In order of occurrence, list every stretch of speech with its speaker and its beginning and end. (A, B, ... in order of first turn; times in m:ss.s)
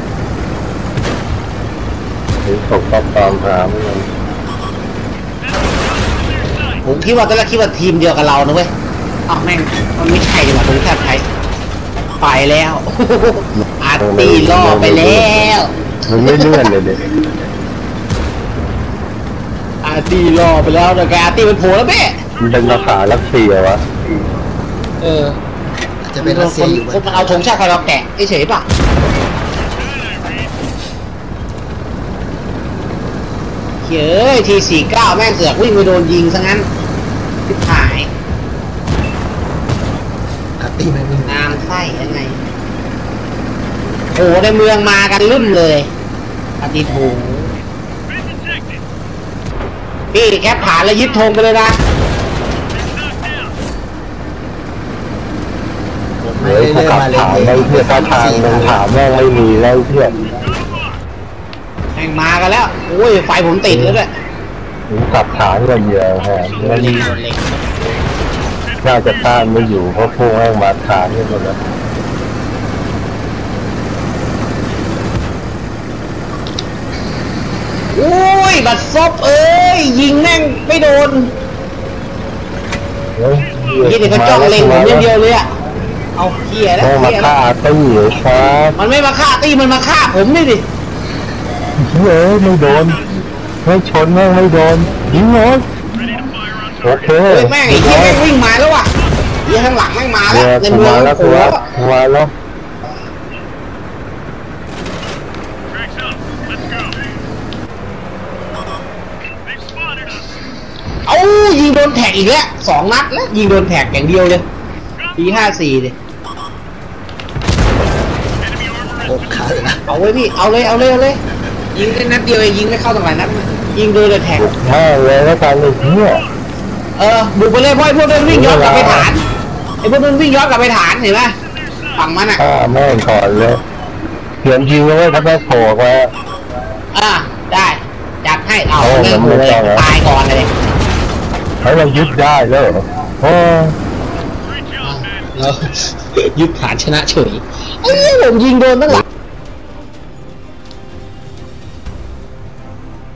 0:02.4-0:04.1 A
0:06.8-0:08.7 B
0:09.3-0:11.2 B
0:12.2-0:16.7 B
0:13.6-0:15.5 A
0:16.1-0:17.0 A
0:19.8-0:22.2 B
0:22.4-0:23.8 A
0:25.0-0:25.4 B
0:26.0-0:27.6 C
0:26.2-0:28.6 B
0:33.8-0:36.6 B
0:37.5-0:38.1 B
0:40.6-0:41.6 C
0:41.3-0:42.4 B
0:44.1-0:45.9 B
0:46.6-0:47.5 B
0:50.1-0:51.8 B
0:56.2-1:00.2 A
0:56.4-0:58.8 C
1:01.9-1:04.1 B
1:03.7-1:04.0 A
1:04.9-1:07.1 A
1:06.6-1:07.6 B
1:08.8-1:11.6 A
1:17.9-1:21.3 B
1:23.2-1:25.1 A
1:23.8-1:25.5 B
1:26.2-1:27.3 B
1:26.8-1:28.8 A
1:28.8-1:30.6 B
1:31.8-1:33.1 A
1:33.6-1:35.6 A
1:36.8-1:38.2 A
1:37.3-1:38.9 B
1:39.4-1:41.6 B
1:40.3-1:42.3 A
1:51.0-1:54.4 B
1:55.1-1:56.0 B
1:59.0-1:59.8 C
1:59.9-2:01.2 B
2:01.7-2:04.5 B
2:04.3-2:06.2 A
2:07.0-2:09.2 B
2:08.3-2:09.1 A
2:09.8-2:11.3 B
2:11.9-2:12.4 B
2:12.4-2:13.6 A
2:14.4-2:16.1 A
2:16.9-2:20.5 B
2:18.8-2:19.9 A
2:21.6-2:23.8 A
2:24.8-2:29.0 B